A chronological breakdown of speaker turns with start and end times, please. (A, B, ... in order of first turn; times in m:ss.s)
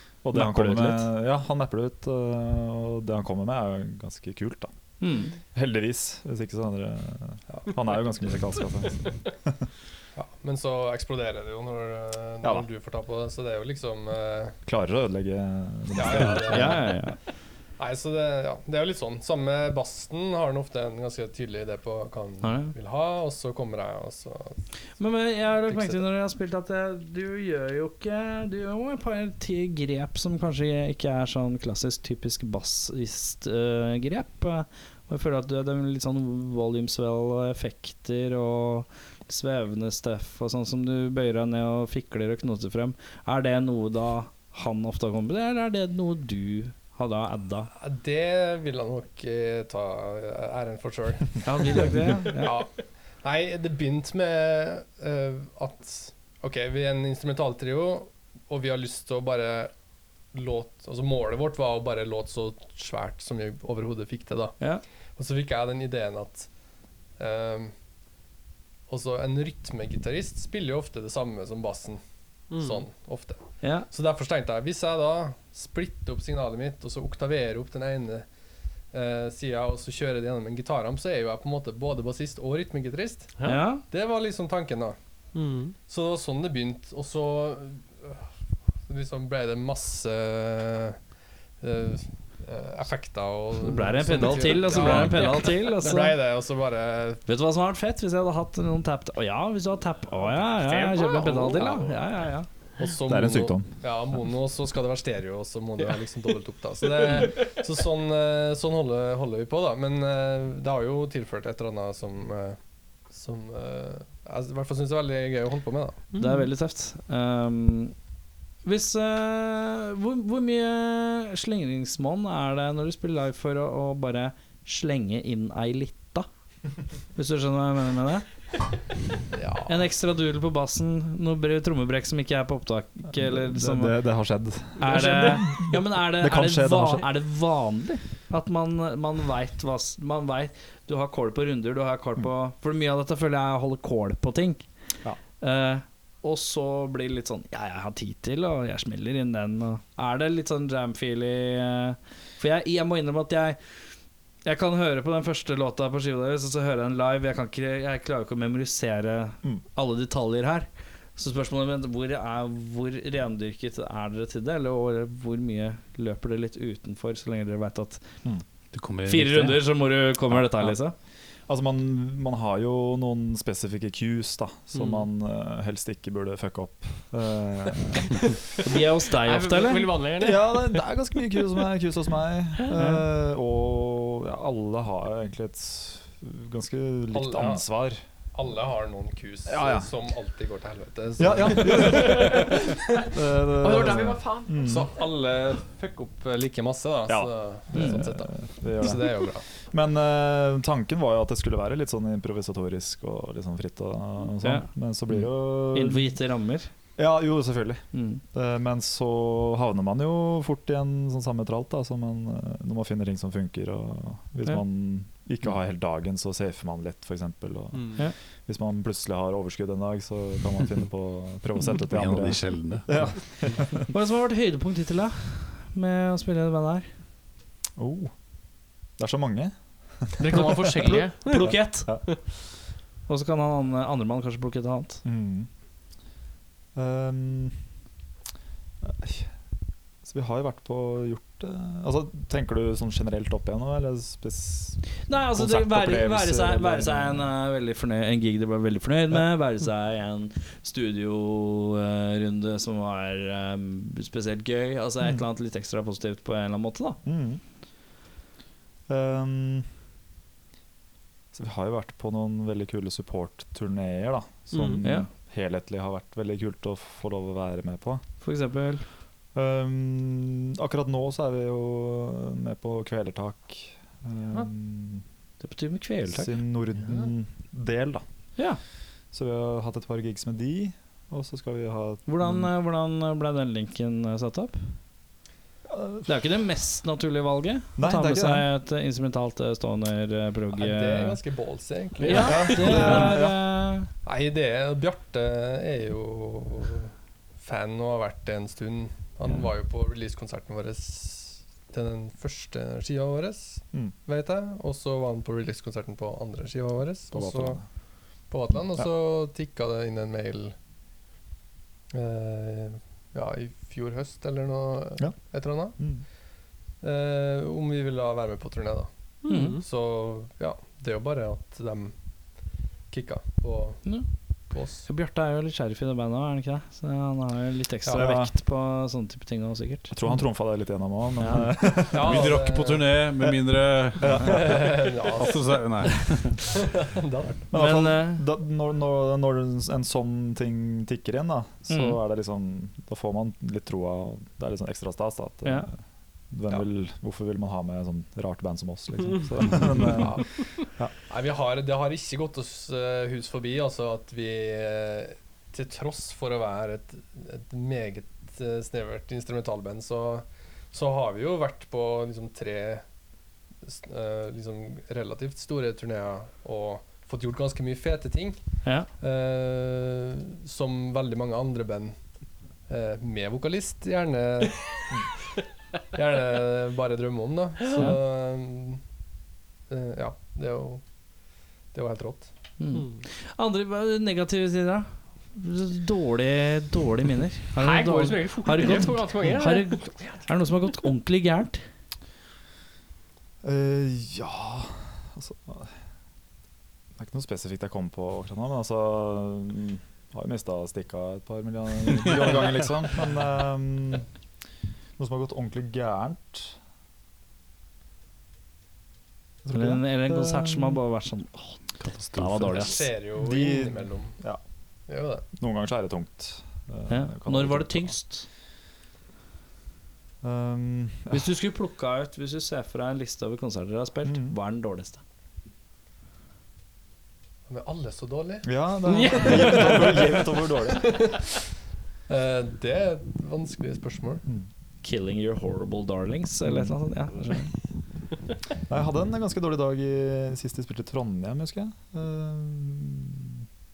0:00.2-0:04.7 A
0:00.3-0:01.1 B
0:05.0-0:05.4 B
0:05.5-0:09.6 A
0:10.2-0:14.6 C
0:14.6-0:16.8 A
0:15.9-0:17.0 C
0:16.5-0:17.2 B
0:17.8-0:24.6 C
0:22.4-0:22.7 B
0:25.0-0:47.7 B
0:25.7-0:26.0 C
0:47.8-0:59.7 C
0:51.4-0:52.6 B
1:00.3-1:04.6 C
1:05.1-1:06.5 C
1:07.2-1:07.7 C
1:08.9-1:18.3 C
1:12.5-1:12.8 D
1:13.6-1:13.9 B
1:18.9-1:25.0 C
1:23.4-1:23.8 B
1:25.3-1:25.7 D
1:25.8-1:28.2 C
1:28.9-1:31.0 C
1:31.6-1:37.2 C
1:33.6-1:36.2 B
1:34.7-1:35.3 D
1:37.3-1:42.5 B
1:40.6-1:42.0 D
1:42.8-1:56.0 C
1:43.0-1:43.7 A
1:56.1-1:56.4 D
1:56.2-1:57.9 B
1:58.6-2:06.3 B
2:07.2-2:08.2 B
2:09.3-2:09.8 C
2:09.6-2:14.0 B
2:13.1-2:17.0 A
2:14.8-2:24.6 B
2:25.4-2:33.6 B
2:34.4-2:48.0 B
2:48.7-2:49.6 E
2:49.0-2:50.9 B
2:50.3-2:50.8 A
2:51.5-2:58.3 A
2:58.6-2:59.9 B
2:59.2-3:00.5 D
3:00.2-3:08.0 A
3:02.7-3:03.0 B
3:07.1-3:07.6 C
3:08.3-3:13.0 C
3:09.5-3:09.9 A
3:11.2-3:14.9 A
3:13.6-3:14.8 D
3:14.6-3:19.4 C
3:17.1-3:26.1 A
3:24.4-3:26.7 B
3:27.0-3:43.9 A
3:27.9-3:28.2 B
3:37.7-3:38.0 D
3:41.8-3:43.1 E
3:43.8-3:46.9 B
3:47.8-3:48.1 A
3:49.0-3:52.1 A
3:50.2-3:51.6 D
3:51.2-3:52.0 B
3:53.1-3:55.0 B
3:55.0-3:55.5 A
3:56.7-3:57.6 A
3:58.8-3:59.3 A
4:00.0-4:07.3 A
4:05.1-4:17.0 B
4:17.0-4:17.4 A
4:18.9-4:19.7 A
4:21.3-4:28.0 A
4:24.5-4:24.8 D
4:24.8-4:25.1 B
4:28.2-4:28.8 B
4:29.3-4:35.0 A
4:35.4-4:36.3 B
4:36.1-4:38.0 A
4:39.1-4:42.5 A
4:42.0-4:44.6 B
4:45.7-4:46.1 A
4:46.0-4:51.2 B
4:47.8-4:48.4 A
4:50.5-4:53.2 C
4:52.0-4:53.9 B
4:52.2-4:53.4 A
4:54.0-5:07.6 C
5:07.1-5:07.6 A
5:08.3-5:10.5 C
5:11.9-5:15.8 C
5:15.0-5:16.0 A
5:16.8-5:18.9 C
5:19.2-5:19.6 D
5:19.3-5:19.6 B
5:19.5-5:22.0 C
5:22.9-5:24.9 C
5:24.8-5:30.0 B
5:27.9-5:28.3 A
5:29.9-5:32.3 A
5:31.2-5:31.5 B
5:31.9-5:33.0 C
5:32.0-5:36.4 E
5:34.0-5:34.6 A
5:34.2-5:35.7 C
5:36.5-5:37.5 C
5:37.5-5:45.7 A
5:37.5-5:38.2 B
5:41.7-5:42.0 B
5:46.3-5:50.9 A
5:49.9-6:02.8 C
6:03.6-6:08.4 C
6:09.0-6:12.0 C
6:12.7-6:14.7 C
6:15.9-6:18.8 C
6:19.7-6:20.8 C
6:21.7-6:22.3 C
6:22.6-6:31.6 B
6:22.7-6:23.0 D
6:27.6-6:30.2 D
6:33.4-6:35.7 A
6:37.0-6:44.1 A
6:45.0-6:46.5 A
6:49.4-6:50.8 A
6:49.5-6:51.6 B
6:51.8-6:52.6 E
6:52.1-6:52.9 B
6:52.5-6:54.2 C
6:53.1-6:54.4 A
6:54.9-6:55.2 C
6:55.3-6:57.9 A
6:56.9-6:58.2 B
7:00.2-7:01.3 A
7:01.1-7:05.0 B
7:04.0-7:04.3 A
7:07.5-7:08.5 C
7:08.4-7:11.2 A
7:08.8-7:10.2 D
7:09.0-7:10.2 C
7:10.7-7:11.2 C
7:12.1-7:14.2 C
7:14.8-7:17.5 B
7:16.4-7:16.7 A
7:18.7-7:23.4 A